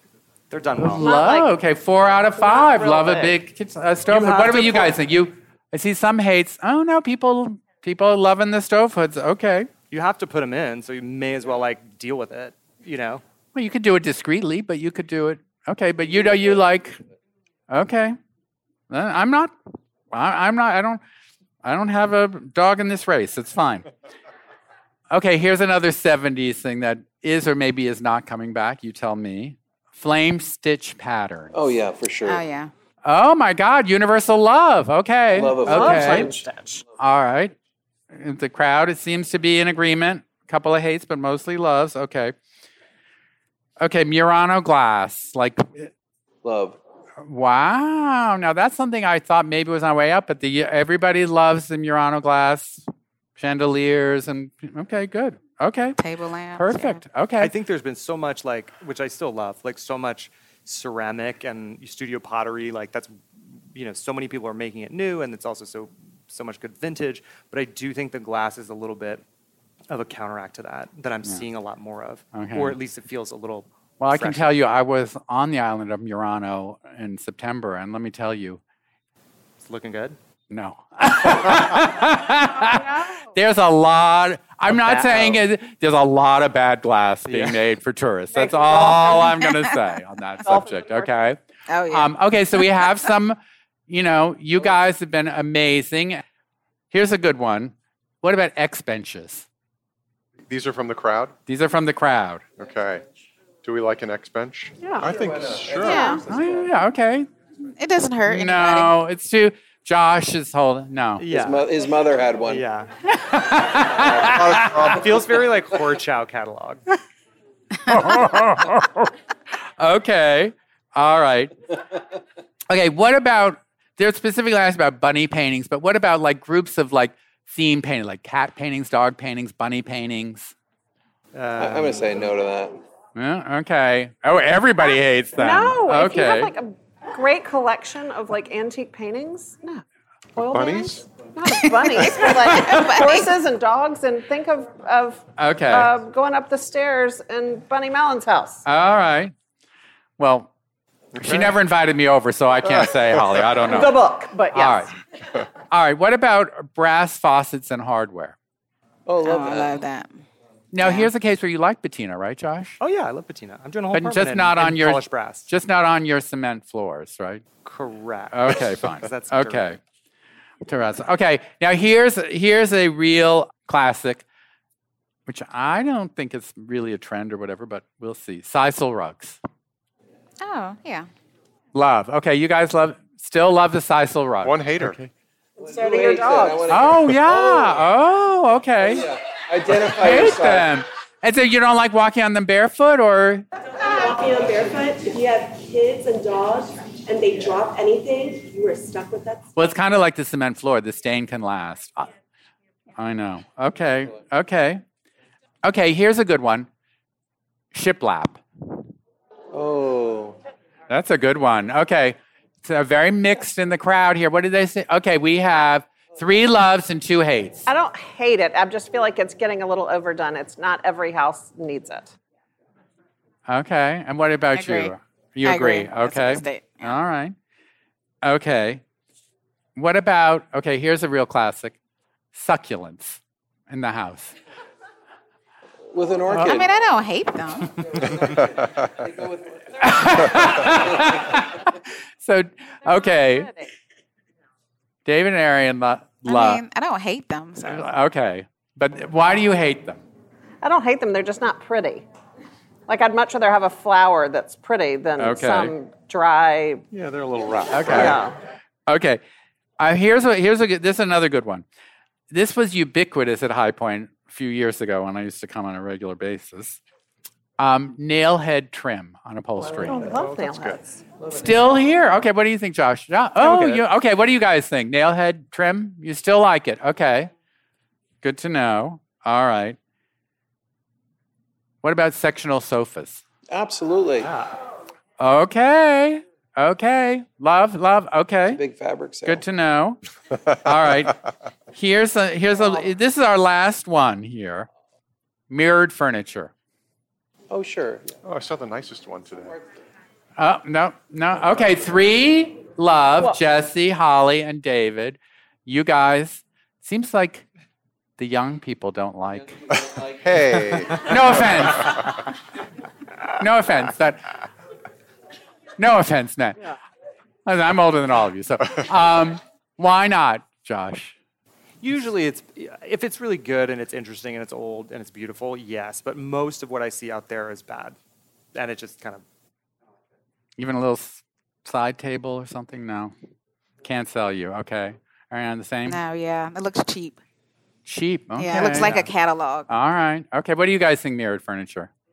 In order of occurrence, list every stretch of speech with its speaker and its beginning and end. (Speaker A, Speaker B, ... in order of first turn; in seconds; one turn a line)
Speaker A: 0.5-1.1
Speaker B: 0.8-9.7
Speaker C: 1.0-1.5
Speaker C: 2.4-3.4
Speaker A: 4.1-5.0
Speaker A: 9.9-13.2
Speaker B: 13.5-17.0
Speaker B: 17.7-18.2
Speaker B: 18.9-19.5
Speaker B: 20.1-21.0
Speaker B: 21.6-23.9
Speaker B: 25.1-31.7
Speaker D: 31.5-32.4
Speaker E: 32.2-32.7
Speaker B: 33.0-36.3
Speaker D: 35.3-36.4
Speaker C: 35.6-36.8
Speaker B: 37.0-37.5
Speaker B: 38.1-42.3
Speaker B: 43.8-45.9
Speaker D: 46.4-46.8
Speaker B: 47.2-56.0
Speaker E: 56.0-57.0
Speaker B: 56.5-57.5
Speaker A: 57.4-63.1
Speaker A: 63.7-69.2
Speaker A: 69.9-74.5
Speaker B: 72.3-72.8
Speaker B: 74.0-78.6
Speaker A: 79.6-80.2
Speaker B: 80.5-96.2
Speaker A: 87.3-87.6
Speaker C: 88.3-89.3
Speaker C: 90.5-91.1
Speaker E: 91.7-92.9
Speaker B: 96.9-99.5
Speaker F: 100.5-101.3
Speaker B: 101.5-102.4
Speaker F: 102.6-103.0
Speaker F: 103.6-106.1
Speaker C: 104.8-105.1
Speaker D: 105.0-106.8
Speaker E: 105.8-106.2
Speaker B: 106.3-107.3
Speaker E: 107.8-108.9
Speaker B: 108.2-111.2
Speaker A: 111.2-111.7
Speaker D: 111.3-112.6
Speaker A: 112.4-112.9
Speaker B: 113.1-115.0
Speaker F: 114.2-115.2
Speaker A: 114.6-116.8
Speaker B: 117.8-119.1
Speaker B: 119.8-121.5
Speaker B: 122.7-130.5
Speaker A: 131.3-132.1
Speaker D: 131.6-132.8
Speaker B: 133.1-136.5
Speaker C: 135.4-139.8
Speaker F: 140.3-141.0
Speaker C: 140.4-148.6
Speaker E: 141.8-143.4
Speaker B: 142.5-142.8
Speaker B: 145.4-145.9
Speaker B: 148.6-149.3
Speaker B: 150.2-150.5
Speaker F: 151.2-151.5
Speaker B: 151.2-154.0
Speaker C: 153.6-154.8
Speaker B: 154.5-154.9
Speaker B: 155.6-158.4
Speaker D: 159.1-159.8
Speaker E: 159.2-160.2
Speaker B: 160.7-162.8
Speaker E: 160.8-161.1
Speaker A: 162.8-165.5
Speaker B: 163.9-167.4
Speaker A: 167.6-169.7
Speaker B: 168.3-169.8
Speaker B: 170.6-174.2
Speaker B: 175.3-179.4
Speaker E: 180.4-181.1
Speaker B: 181.7-185.1
Speaker F: 184.4-185.0
Speaker D: 185.6-187.8
Speaker C: 185.6-186.8
Speaker B: 186.7-189.1
Speaker D: 188.8-190.7
Speaker B: 189.7-193.4
Speaker G: 193.8-199.5
Speaker B: 199.6-202.1
Speaker B: 202.9-204.8
Speaker B: 205.6-206.7
Speaker B: 207.7-208.4
Speaker D: 209.5-210.4
Speaker B: 210.9-217.7
Speaker C: 217.7-222.1
Speaker B: 223.5-227.3
Speaker E: 224.5-226.9
Speaker B: 228.2-228.8
Speaker B: 229.7-231.8
Speaker B: 232.3-234.3
Speaker D: 235.9-236.7
Speaker E: 236.3-237.9
Speaker D: 237.8-241.4
Speaker B: 239.8-243.5
Speaker C: 242.9-243.7
Speaker B: 245.1-246.6
Speaker E: 246.2-247.9
Speaker B: 247.6-250.0
Speaker C: 250.6-252.0
Speaker C: 252.9-256.9
Speaker B: 255.2-255.7
Speaker F: 256.9-258.3
Speaker B: 257.7-258.2
Speaker C: 257.9-258.4
Speaker B: 258.9-259.2
Speaker B: 259.8-261.6
Speaker B: 262.3-266.8
Speaker B: 267.6-270.1
Speaker C: 269.6-271.0
Speaker F: 270.1-270.8
Speaker B: 271.3-277.3
Speaker D: 273.4-273.8
Speaker B: 278.2-279.8
Speaker B: 281.8-283.2
Speaker D: 283.5-284.3
Speaker B: 285.2-288.6
Speaker D: 288.5-289.4
Speaker B: 289.2-291.2
Speaker B: 291.7-294.7
Speaker B: 295.5-296.5
Speaker D: 297.5-298.1
Speaker F: 298.2-299.6
Speaker B: 300.4-307.4
Speaker B: 308.2-309.6
Speaker D: 309.3-310.6
Speaker F: 310.2-312.1
Speaker B: 311.0-312.1
Speaker B: 313.4-314.3
Speaker B: 315.8-316.8
Speaker B: 317.4-321.1
Speaker A: 321.8-327.9
Speaker A: 328.5-329.2
Speaker B: 330.6-333.1
Speaker B: 333.8-336.0
Speaker E: 335.8-337.2
Speaker B: 337.9-339.1
Speaker E: 338.4-339.7
Speaker B: 339.7-341.9